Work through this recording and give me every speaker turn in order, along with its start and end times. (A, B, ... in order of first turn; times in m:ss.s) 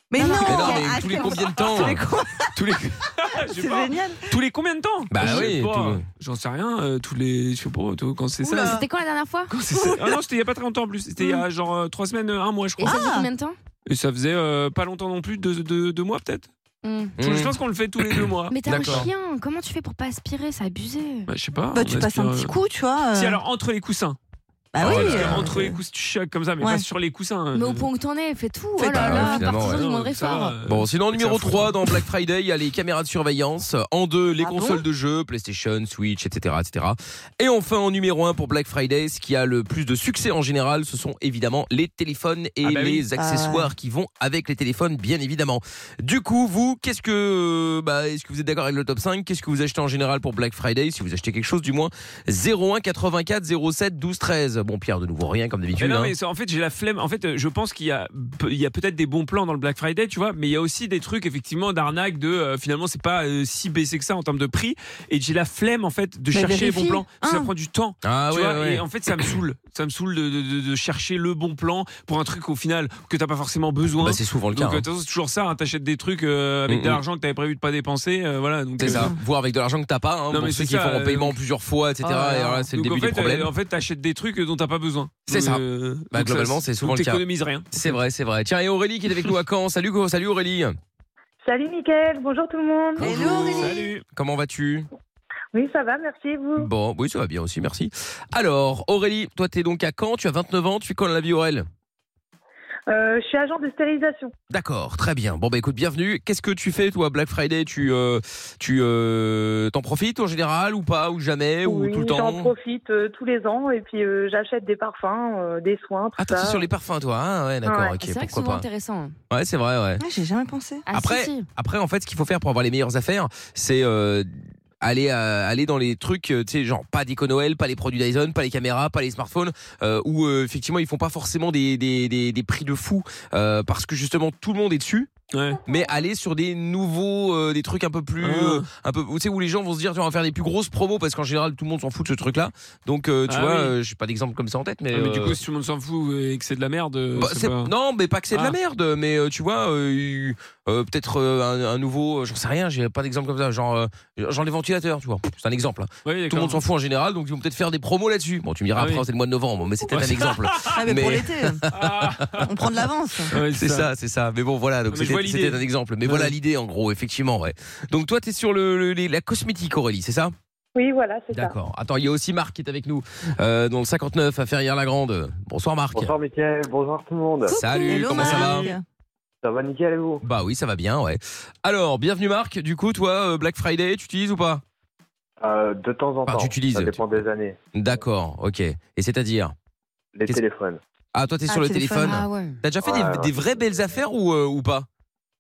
0:00.1-0:02.5 A
0:00.2-0:01.3 B
0:00.4-0:02.0 C
0:01.6-0:02.0 D
0:02.5-0:08.8 D
0:03.5-0:04.3 A
0:05.1-0:06.0 C
0:08.4-0:09.5 B
0:08.5-0:08.8 A
0:09.5-0:13.0 D
0:09.6-0:10.2 A
0:12.8-0:13.6 B
0:12.8-0:13.3 A
0:13.8-0:16.5 D
0:16.8-0:17.1 B
0:17.2-0:17.5 C
0:17.2-0:19.1 D
0:18.1-0:19.1 C
0:18.5-0:21.3 B
0:21.3-0:22.5 D
0:21.7-0:23.4 A
0:23.1-0:24.2 D
0:24.7-0:25.8 A
0:24.8-0:25.5 C
0:24.8-0:27.9 D
0:27.5-0:30.6 B
0:28.8-0:29.8 C
0:29.0-0:29.4 A
0:29.1-0:31.8 D
0:30.6-0:56.1 C
0:34.4-0:34.8 A
0:42.6-0:43.0 D
0:43.2-0:43.7 A
0:55.7-1:19.2 D
1:06.3-1:07.5 A
1:08.0-1:08.8 C
1:14.0-1:14.8 C
1:16.7-1:17.0 C
1:18.8-1:23.5 C
1:18.8-1:19.1 A
1:20.3-1:21.4 D
1:22.0-1:22.7 B
1:22.7-1:28.0 D
1:25.3-1:30.8 C
1:31.4-1:32.9 E
1:33.0-1:34.9 C
1:33.0-1:33.9 A
1:33.2-1:34.0 D
1:35.5-1:36.6 E
1:36.6-1:41.7 C
1:42.9-1:44.3 E
1:44.5-1:52.5 C
1:51.8-1:56.4 E
1:56.2-1:58.6 C
1:58.0-1:59.1 B
1:59.3-2:00.0 C
2:00.0-2:00.8 A
2:00.8-2:01.5 B
2:00.9-2:15.1 C
2:15.3-2:15.6 D
2:15.6-2:25.4 C
2:18.2-2:18.6 D
2:23.3-2:23.7 D
2:24.9-2:27.7 D
2:27.2-2:42.3 C
2:36.0-2:36.6 D
2:38.8-2:39.0 D
2:39.9-2:40.8 D
2:40.7-2:41.6 A
2:41.7-2:42.5 D
2:42.5-2:43.3 A
2:43.3-2:43.9 D
2:43.3-2:50.3 C
2:44.9-2:46.3 D
2:50.8-2:51.5 E
2:51.3-2:56.1 C
2:55.9-2:57.6 F
2:57.5-2:58.8 A
2:57.5-2:58.7 C
2:57.9-2:58.6 D
2:59.4-3:00.2 F
3:00.2-3:04.6 C
3:05.4-3:07.6 F
3:06.3-3:07.0 C
3:07.7-3:09.5 C
3:10.1-3:10.8 F
3:11.1-3:14.9 C
3:11.5-3:12.6 B
3:12.8-3:13.3 F